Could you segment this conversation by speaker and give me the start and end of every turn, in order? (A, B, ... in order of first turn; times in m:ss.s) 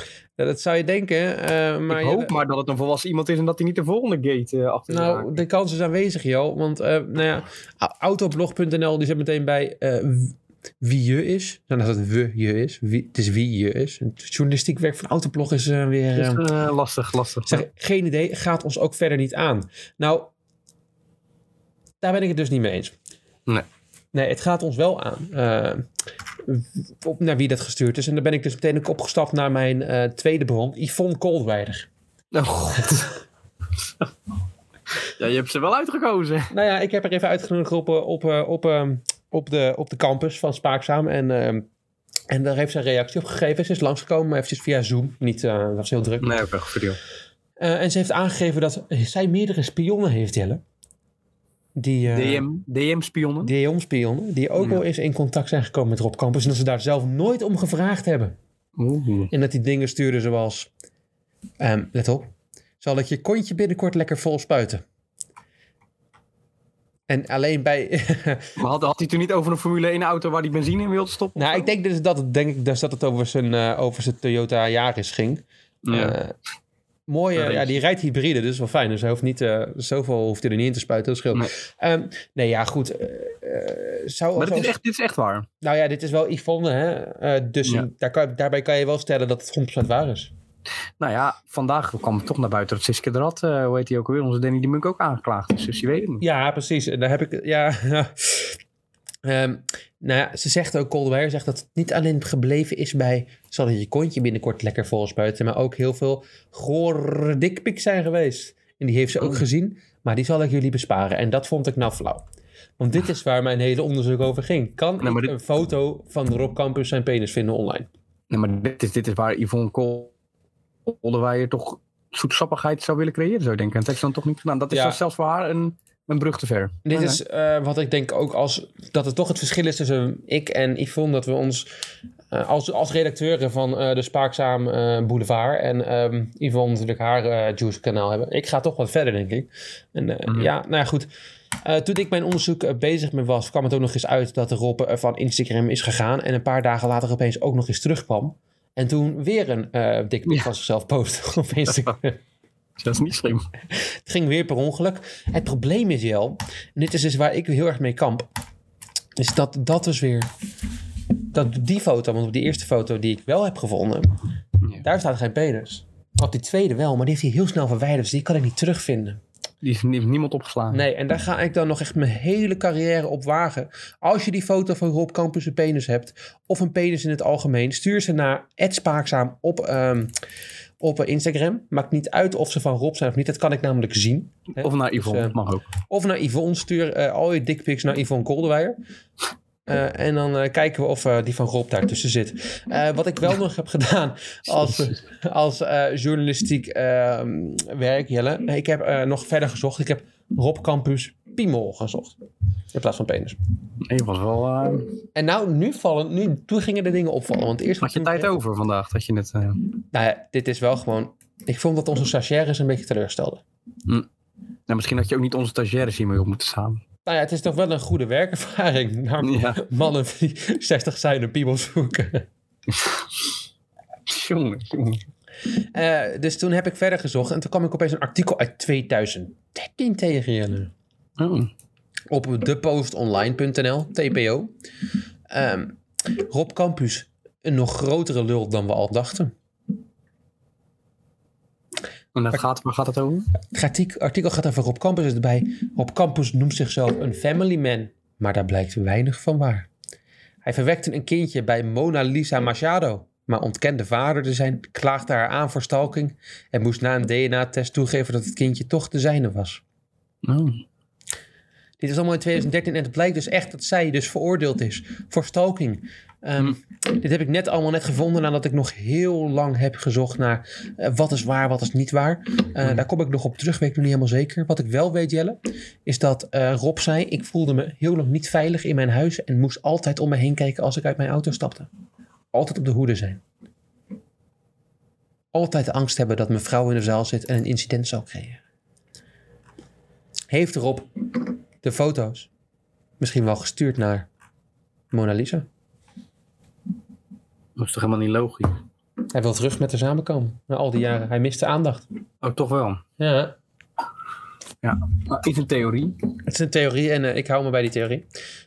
0:00.4-0:02.4 A
0:01.9-0:05.4 B
0:04.9-0:16.5 A
0:16.2-0:17.6 B
0:17.5-0:20.3 A
0:22.0-0:22.9 A
0:24.1-0:25.9 A
0:26.5-0:31.9 A
0:32.3-0:33.2 B
0:35.2-0:36.5 B
0:36.5-0:41.7 A
0:42.3-0:46.4 A
0:46.2-0:47.0 B
0:47.6-0:50.6 A
0:51.8-0:52.5 A
0:52.1-0:53.5 B
0:53.4-0:58.4 A
0:58.8-0:59.3 B
0:59.3-1:00.7 A
1:01.6-1:04.8 A
1:07.1-1:08.6 A
1:08.6-1:11.7 B
1:11.4-1:16.3 A
1:15.8-1:16.2 B
1:17.1-1:24.8 A
1:17.4-1:17.8 B
1:24.4-1:25.5 B
1:25.6-1:30.3 A
1:31.0-1:36.2 B
1:36.2-1:38.6 A
1:39.2-1:52.2 A
1:52.8-1:57.9 A
1:55.0-1:55.4 B
1:58.3-2:00.1 B
2:00.9-2:07.2 B
2:04.7-2:05.0 A
2:06.9-2:11.7 A
2:12.3-2:21.1 A
2:21.6-2:32.2 A
2:32.8-2:33.5 B
2:34.1-2:38.3 A
2:39.2-2:40.3 A
2:41.3-2:44.2 A
2:44.8-2:49.2 A
2:49.6-2:50.8 B
2:50.7-3:00.2 A
3:00.8-3:08.8 A
3:04.6-3:05.7 B
3:09.7-3:22.1 A
3:14.6-3:14.9 B
3:22.7-3:23.4 A
3:23.9-3:24.9 B
3:25.2-3:28.3 A
3:27.8-3:29.6 B
3:29.9-3:33.4 A
3:34.7-3:36.8 B
3:37.1-3:42.2 A
3:39.2-3:39.7 B
3:42.7-3:43.0 B
3:44.1-3:45.0 B
3:45.7-3:50.7 A
3:51.2-3:51.5 B
3:52.1-3:54.5 A
3:55.3-3:59.3 A
4:02.2-4:03.3 B
4:03.5-4:09.7 A
4:10.4-4:19.6 A
4:20.2-4:20.6 B
4:21.8-4:41.7 A
4:42.3-4:43.2 A
4:45.3-4:48.4 A
4:50.3-4:50.9 A
4:51.6-4:52.3 A
4:53.0-4:54.1 A
4:54.9-4:55.5 A
4:57.6-4:58.6 B
4:59.1-5:01.8 A
5:02.2-5:02.8 B
5:03.0-5:03.4 A
5:04.6-5:06.0 B
5:06.3-5:08.0 A